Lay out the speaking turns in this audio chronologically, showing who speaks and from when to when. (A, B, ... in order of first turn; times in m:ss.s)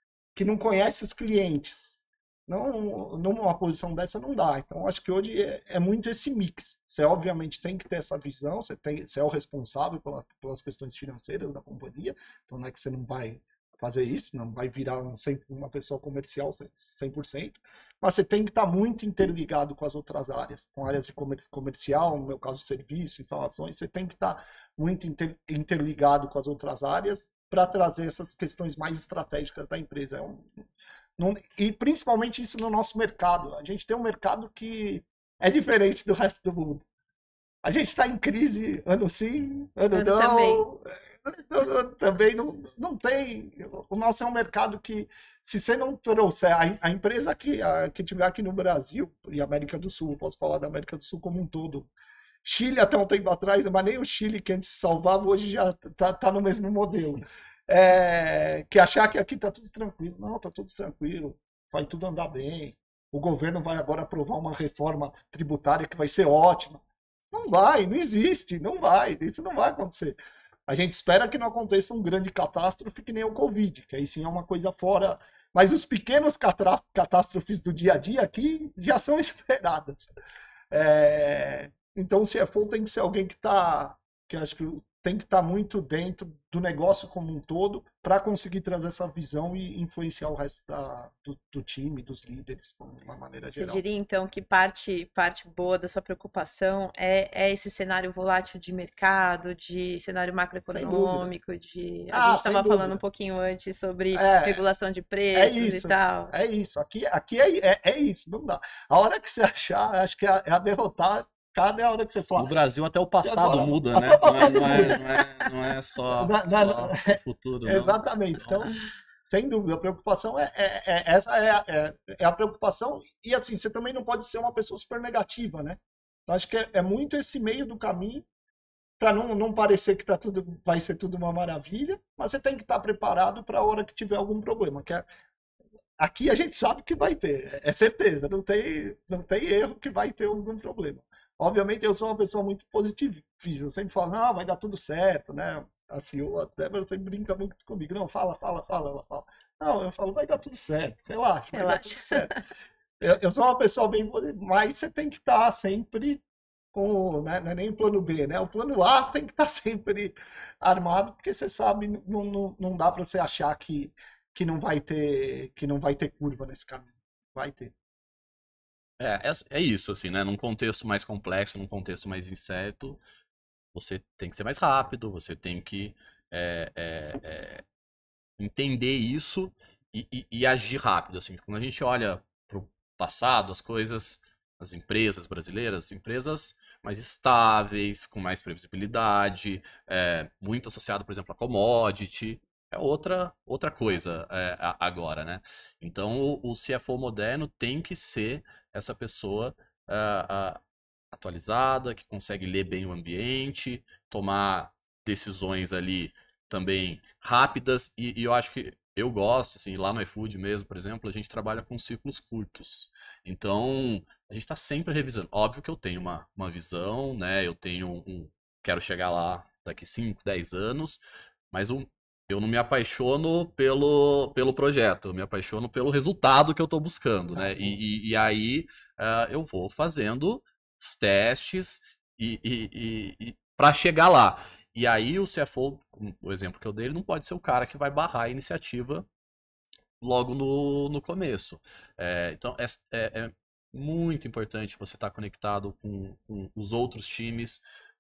0:00.4-0:30.5 A
0:31.2-0:36.8 A
0:37.6-0:51.9 A
0:39.9-0:40.7 B
0:52.4-1:20.1 A
1:20.7-1:33.8 A
1:33.5-1:46.3 B
1:40.7-1:41.3 A
1:42.1-1:43.0 A
1:44.1-1:44.6 A
1:45.3-1:52.5 A
1:52.4-1:58.0 C
1:53.2-1:55.1 A
1:56.1-1:58.7 A
1:59.2-2:08.2 A
2:09.0-2:15.0 A
2:16.0-2:32.3 A
2:31.5-2:32.4 B
2:33.0-2:36.2 A
2:36.7-2:47.7 A
2:49.0-2:53.0 C
2:53.7-2:57.6 C
2:58.4-3:20.6 C
3:21.1-3:59.1 C
3:47.4-3:47.8 A
4:00.0-4:07.6 C